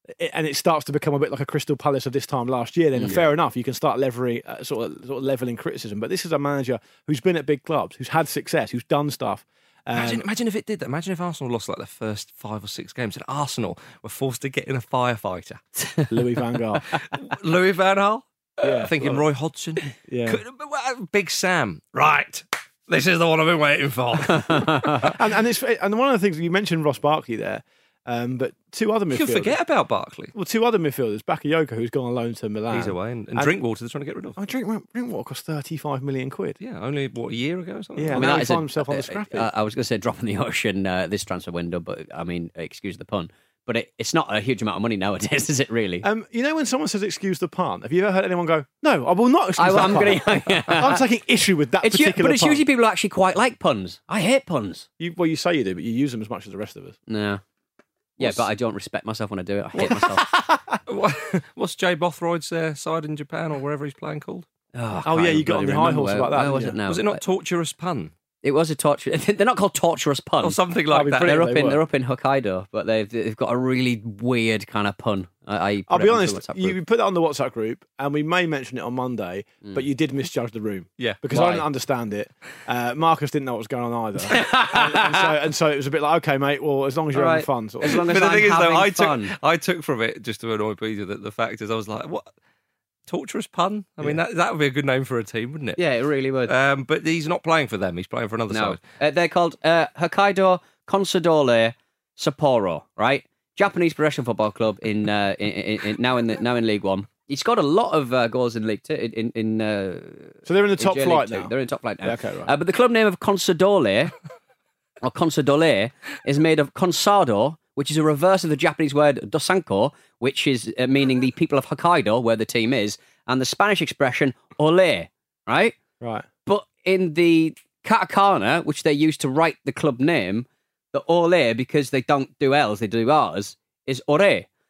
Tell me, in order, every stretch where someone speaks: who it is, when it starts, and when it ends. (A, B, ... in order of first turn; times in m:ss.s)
0:00.2-0:10.2 A
0:03.0-0:03.2 B
0:09.9-0:15.6 C
0:16.1-0:17.0 A
0:17.0-0:25.1 C
0:18.6-0:19.2 A
0:20.1-0:20.4 A
0:24.4-0:25.1 B
0:25.0-0:29.5 A
0:29.1-0:30.3 C
0:30.3-0:33.5 A
0:32.7-0:34.4 C
0:34.4-0:36.6 A
0:36.6-0:38.4 C
0:38.0-0:39.5 A
0:38.1-0:46.0 B
0:46.0-0:52.6 A
0:49.6-0:51.0 B
0:51.8-0:54.9 B
0:55.0-0:57.0 A
0:57.1-0:57.4 B
0:58.2-0:58.4 A
0:58.2-1:00.3 B
0:59.8-1:00.8 A
1:00.9-1:04.4 C
1:04.7-1:07.2 B
1:05.0-1:06.8 A
1:06.9-1:08.1 C
1:08.4-1:10.6 B
1:10.4-1:11.4 C
1:10.9-1:11.8 A
1:11.2-1:16.8 B
1:15.9-1:28.0 A
1:21.3-1:21.7 B
1:24.3-1:25.3 B
1:27.1-1:29.3 B
1:27.9-1:32.3 C
1:33.1-1:35.8 C
1:35.8-1:36.5 B
1:36.5-1:38.8 C
1:38.5-1:54.1 B
1:50.4-1:52.5 A
1:55.0-2:05.8 B
2:06.0-2:06.3 A
2:06.4-2:14.5 B